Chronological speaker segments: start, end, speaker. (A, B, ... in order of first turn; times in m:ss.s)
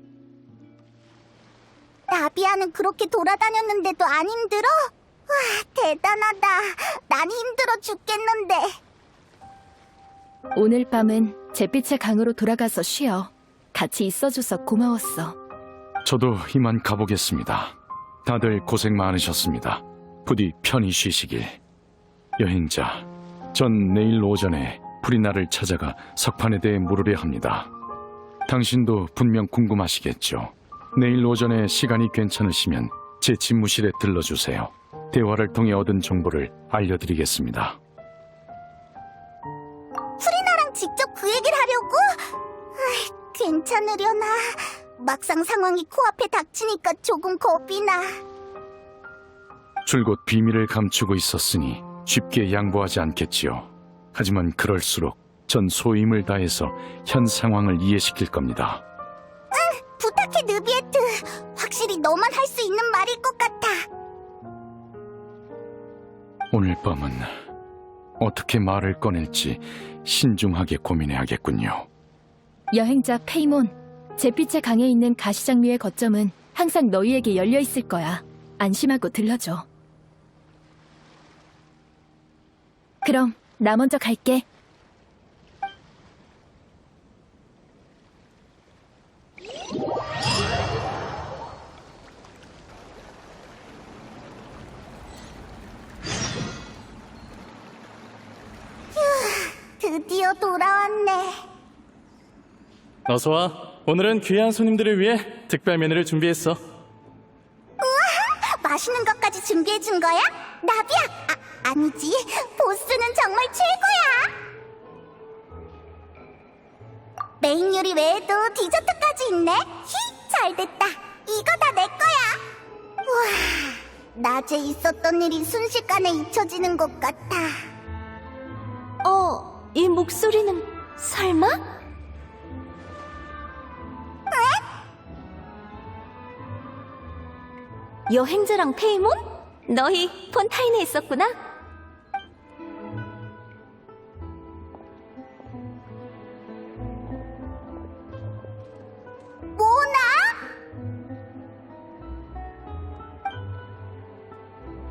0:02.1-0:08.8 A
0:10.6-0:15.4 B
0:16.0-0:21.6 C
0:22.4-0:27.7 C
0:28.5-0:37.8 C
0:40.2-0:48.1 A
0:49.9-0:58.8 C
0:59.5-1:03.9 A
1:06.5-1:07.3 C
1:08.2-1:11.9 C
1:12.7-1:19.7 B
1:23.0-1:24.5 B
1:39.0-1:41.4 A
1:43.1-1:46.6 D
1:47.8-1:54.4 A
1:57.4-2:02.4 A
2:03.1-2:07.6 A
2:09.0-2:11.6 E
2:14.3-2:14.6 A
2:18.1-2:21.4 E
2:29.6-2:30.4 A